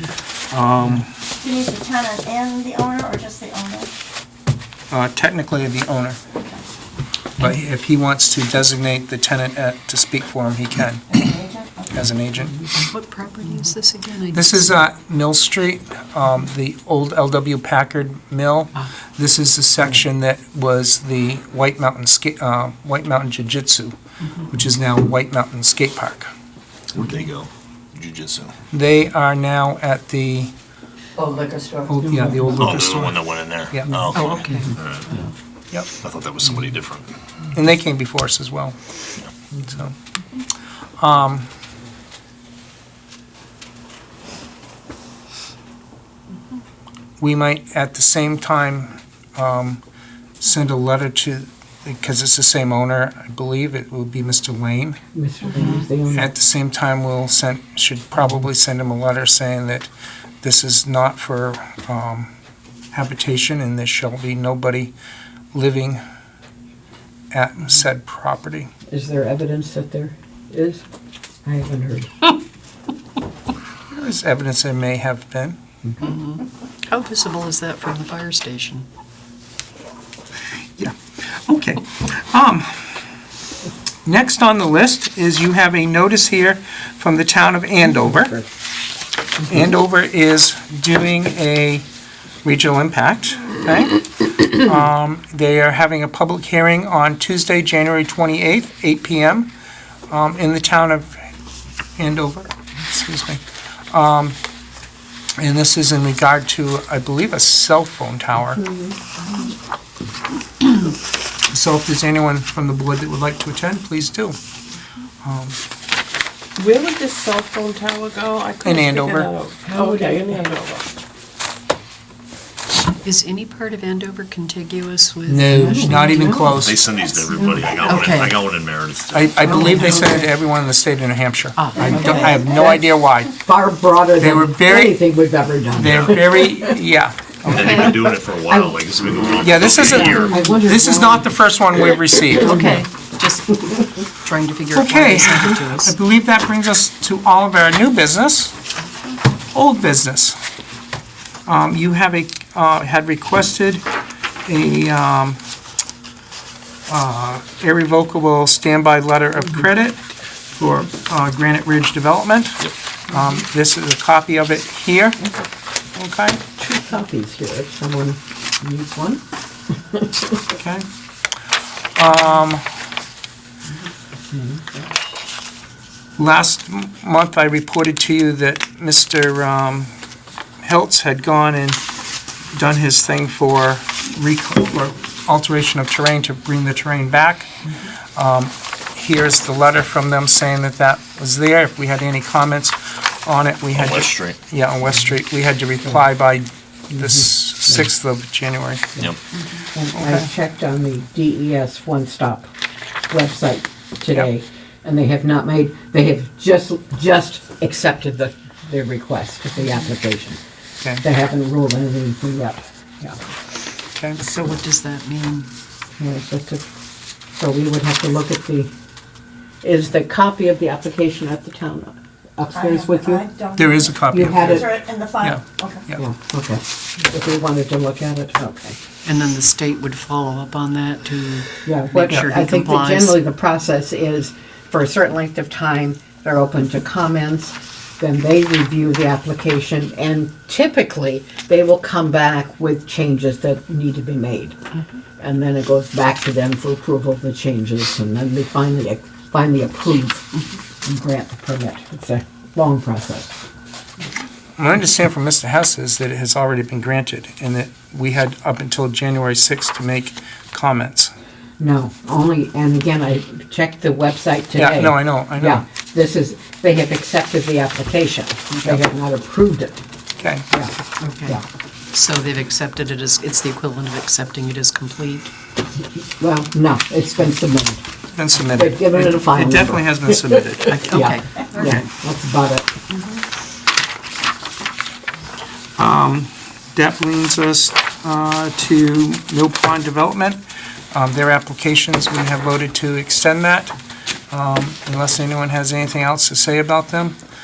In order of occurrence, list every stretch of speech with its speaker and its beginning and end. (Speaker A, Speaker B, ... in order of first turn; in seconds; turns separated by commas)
Speaker A: 0.5-1.1, Speaker B: 1.4-3.9, Speaker A: 4.9-6.2, Speaker A: 7.4-11.3, Speaker B: 11.2-11.9, Speaker A: 11.9-12.7, Speaker C: 12.8-14.8, Speaker A: 14.3-24.0, Speaker A: 24.5-26.3, Speaker D: 26.9-28.5, Speaker A: 28.7-30.5, Speaker B: 31.2-31.9, Speaker A: 31.9-33.2, Speaker E: 32.0-32.6, Speaker D: 32.6-35.1, Speaker A: 33.7-34.0, Speaker C: 34.1-34.7, Speaker D: 36.0-37.2, Speaker A: 37.5-38.8, Speaker A: 39.6-39.9, Speaker A: 41.0-41.5, Speaker A: 47.2-49.8, Speaker A: 50.4-55.0, Speaker E: 55.1-56.3, Speaker A: 56.1-59.9, Speaker A: 60.4-62.3, Speaker A: 62.9-64.9, Speaker A: 65.5-66.0, Speaker A: 67.3-68.7, Speaker E: 68.9-70.8, Speaker E: 71.5-72.3, Speaker A: 73.9-75.6, Speaker E: 75.8-76.2, Speaker C: 76.0-78.9, Speaker A: 80.8-82.8, Speaker A: 84.0-88.4, Speaker A: 89.5-91.9, Speaker A: 92.4-99.5, Speaker A: 100.1-101.2, Speaker A: 102.0-104.4, Speaker A: 105.4-108.6, Speaker E: 108.6-108.9, Speaker A: 111.5-114.4, Speaker A: 115.2-115.6, Speaker F: 116.6-120.9, Speaker A: 118.6-119.3, Speaker E: 119.6-120.4, Speaker C: 123.0-126.4, Speaker A: 125.3-126.8, Speaker E: 125.5-126.6, Speaker D: 126.6-129.2, Speaker E: 127.4-128.3, Speaker A: 129.1-133.4, Speaker E: 129.4-130.3, Speaker E: 131.6-132.8, Speaker E: 133.3-136.8, Speaker A: 134.2-135.0, Speaker A: 135.7-137.9, Speaker D: 137.5-140.5, Speaker E: 137.5-138.8, Speaker A: 139.4-142.8, Speaker E: 139.8-141.3, Speaker E: 142.3-142.8, Speaker C: 142.3-146.0, Speaker A: 144.7-148.6, Speaker A: 149.5-150.4, Speaker A: 151.5-153.8, Speaker A: 154.5-155.4, Speaker A: 156.9-160.0, Speaker A: 160.6-165.2, Speaker A: 165.9-166.4, Speaker E: 166.6-170.5, Speaker A: 170.6-170.9, Speaker A: 171.9-172.7, Speaker E: 174.3-174.9, Speaker A: 176.2-179.9, Speaker A: 180.6-181.8, Speaker A: 182.5-187.5, Speaker A: 188.2-198.9, Speaker D: 193.7-194.4, Speaker E: 199.7-202.5, Speaker A: 199.9-200.3, Speaker E: 203.1-210.4, Speaker E: 211.0-213.2, Speaker C: 214.2-215.5, Speaker E: 216.0-216.7, Speaker E: 217.3-218.7, Speaker E: 219.6-223.3, Speaker B: 222.5-225.8, Speaker A: 223.6-226.0, Speaker E: 224.0-224.6, Speaker E: 226.0-228.8, Speaker C: 229.1-233.2, Speaker E: 231.7-244.6, Speaker E: 245.2-250.3, Speaker E: 250.8-253.4, Speaker A: 254.6-261.1, Speaker E: 261.6-269.8, Speaker A: 264.6-265.6, Speaker C: 268.5-268.8, Speaker A: 270.2-270.5, Speaker E: 270.5-271.4, Speaker C: 271.0-271.4, Speaker C: 271.9-275.3, Speaker E: 276.2-277.8, Speaker A: 278.1-281.1, Speaker E: 278.5-282.7, Speaker C: 280.7-281.3, Speaker A: 281.6-281.9, Speaker A: 285.8-293.7, Speaker A: 294.3-297.2